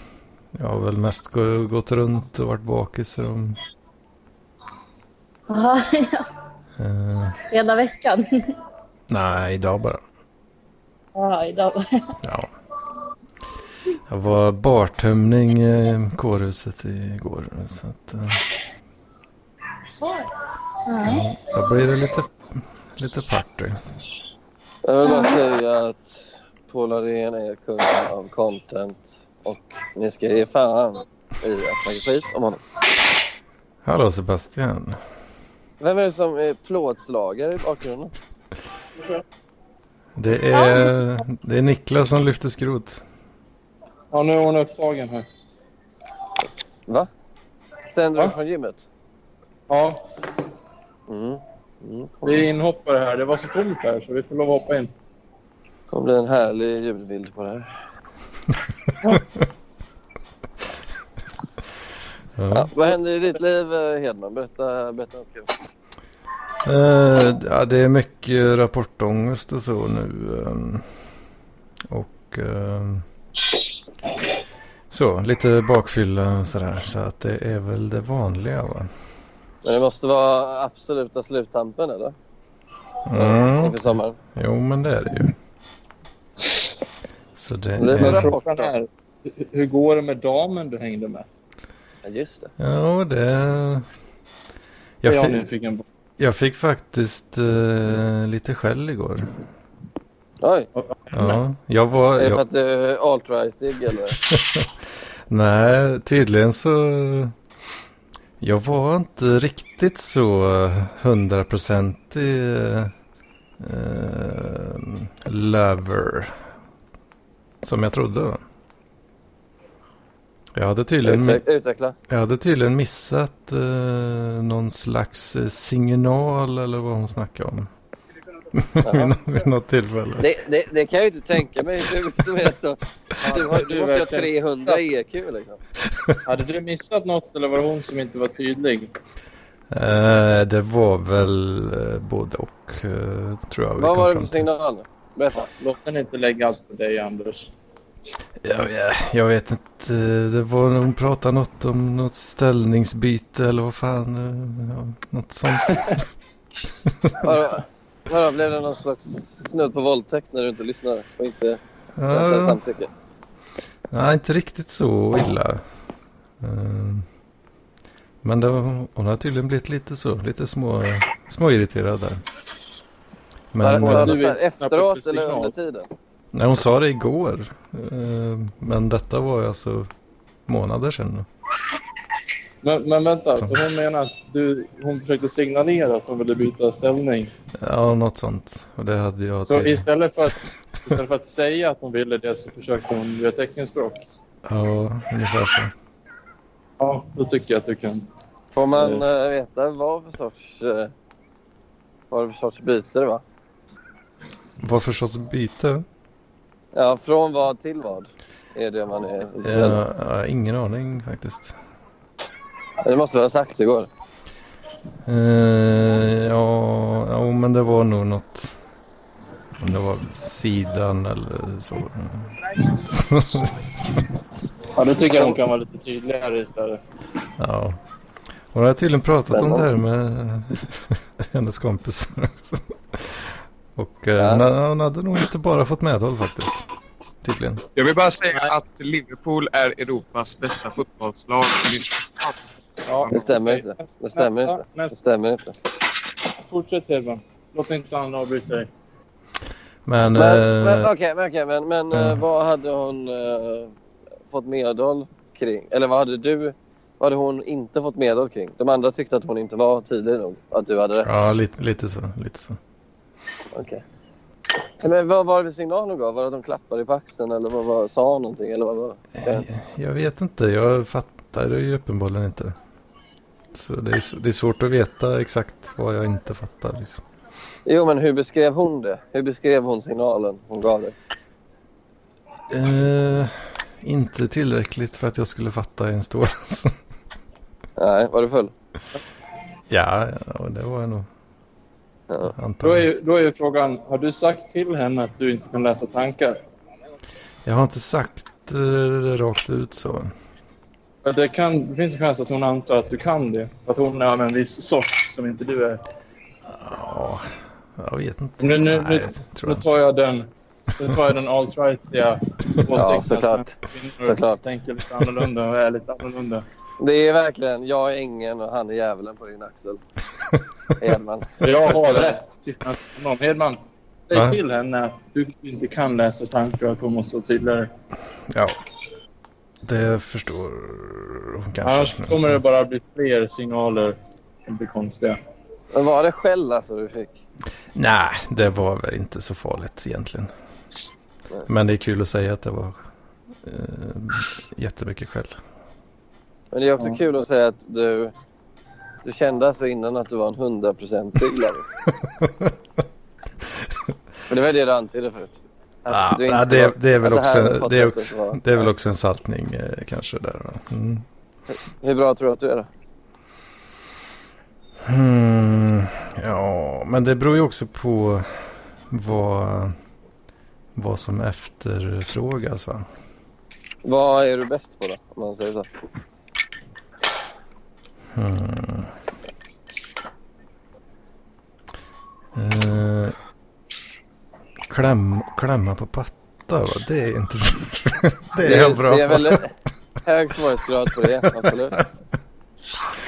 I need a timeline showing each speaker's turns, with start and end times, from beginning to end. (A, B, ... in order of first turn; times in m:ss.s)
0:00.5-0:03.6 A
0:05.5-0:06.2 B
0:06.8-0:07.4 A
0:07.5-0:08.5 B
0:09.1-0:10.0 A
0:11.1-0:12.1 B
0:12.2-0:12.5 A
0:14.1-0:18.5 A
0:20.0-0:20.3 B
0:20.8-0:21.3 B
0:21.0-0:22.3 A
0:23.0-0:23.8 A
0:24.8-0:32.6 C
0:25.0-0:25.4 B
0:33.8-0:35.0 A
0:35.8-0:38.1 C
0:40.2-0:43.0 A
0:40.5-0:41.0 B
0:44.1-0:45.2 D
0:47.9-0:48.8 C
0:49.7-0:50.0 D
0:51.1-0:52.5 C
0:52.2-0:54.9 D
0:55.9-0:57.7 C
1:02.4-1:02.7 A
1:02.5-1:05.5 C
1:06.6-1:10.8 A
1:11.9-1:13.0 A
1:14.9-1:18.9 A
1:19.6-1:22.1 C
1:23.0-1:25.3 A
1:23.1-1:24.2 C
1:27.4-1:28.3 A
1:27.8-1:28.7 C
1:28.0-1:31.3 D
1:32.0-1:32.5 C
1:32.6-1:33.8 A
1:35.0-1:35.4 A
1:35.0-1:35.8 D
1:36.2-1:39.3 A
1:40.4-1:40.7 C
1:40.8-1:41.1 D
1:41.1-1:42.4 A
1:42.2-1:44.2 C
1:44.2-1:44.7 A
1:45.3-1:47.3 A
1:48.4-1:52.9 A
1:53.6-1:56.3 A
1:57.6-1:58.4 A
2:00.5-2:01.4 A
2:01.0-2:02.0 C
2:02.1-2:07.7 A
2:08.5-2:10.3 A
2:08.8-2:09.1 C
2:10.2-2:15.6 C
2:13.2-2:14.8 D
2:16.2-2:18.9 D
2:19.7-2:24.5 A
2:23.8-2:25.5 C
2:25.5-2:27.5 D
2:28.4-2:36.0 A
2:36.9-2:37.1 A
2:37.2-2:42.9 C
2:42.0-2:42.6 A
2:43.9-2:45.6 A
2:46.4-2:47.0 A
2:48.2-2:52.2 A
2:53.5-2:54.2 A
2:53.6-2:55.9 C
2:53.7-2:55.5 D
2:56.3-2:59.9 A
3:00.5-3:01.3 A
3:02.6-3:07.3 D
3:07.6-3:09.8 A
3:09.5-3:14.0 D
3:14.4-3:15.7 A
3:16.8-3:18.0 D
3:18.5-3:20.9 C
3:18.8-3:19.0 D
3:22.1-3:23.2 C
3:24.6-3:25.8 A
3:26.7-3:29.8 C
3:29.4-3:31.6 A
3:32.8-3:33.9 C
3:35.0-3:38.5 A
3:39.6-3:44.0 A
3:44.7-3:46.8 D
3:47.4-3:47.8 A
3:48.5-3:56.7 A
3:49.3-3:49.7 C
3:54.2-3:54.4 C
3:57.2-3:57.6 A
3:57.7-4:02.4 E
4:02.8-4:05.0 D
4:03.1-4:05.5 C
4:06.4-4:08.7 D
4:09.8-4:10.9 A
4:10.1-4:13.7 C
4:11.9-4:12.2 A
4:14.3-4:21.1 C
4:21.0-4:22.6 A
4:23.5-4:23.8 C
4:24.8-4:29.5 C
4:29.2-4:32.6 A
4:33.5-4:37.0 A
4:37.6-4:40.9 C
4:42.5-4:46.7 A
4:47.8-4:48.5 C
4:49.7-4:51.1 A
4:52.3-4:52.9 A
4:52.6-4:56.4 D
4:57.4-5:00.1 A
5:01.0-5:05.8 D
5:06.4-5:09.6 A
5:08.4-5:16.4 D
5:12.7-5:14.4 C
5:16.8-5:19.8 C
5:20.8-5:22.2 C
5:21.4-5:27.7 D
5:24.1-5:24.4 A
5:28.3-5:28.6 A
5:29.6-5:32.4 A
5:31.6-5:35.2 D
5:35.7-5:37.2 C
5:37.7-5:40.3 A
5:41.5-5:42.8 A
5:43.4-5:45.4 A
5:46.5-5:48.1 C
5:49.0-5:51.6 C
5:52.2-5:52.5 A
5:54.3-5:58.7 C
5:55.9-6:01.0 A
6:01.8-6:02.7 C
6:04.8-6:09.7 A
6:10.8-6:12.8 A
6:13.8-6:15.7 C
6:18.1-6:18.9 A
6:22.3-6:23.2 A
6:24.7-6:29.4 A
6:28.4-6:29.5 C
6:30.0-6:31.8 C
6:31.3-6:31.8 A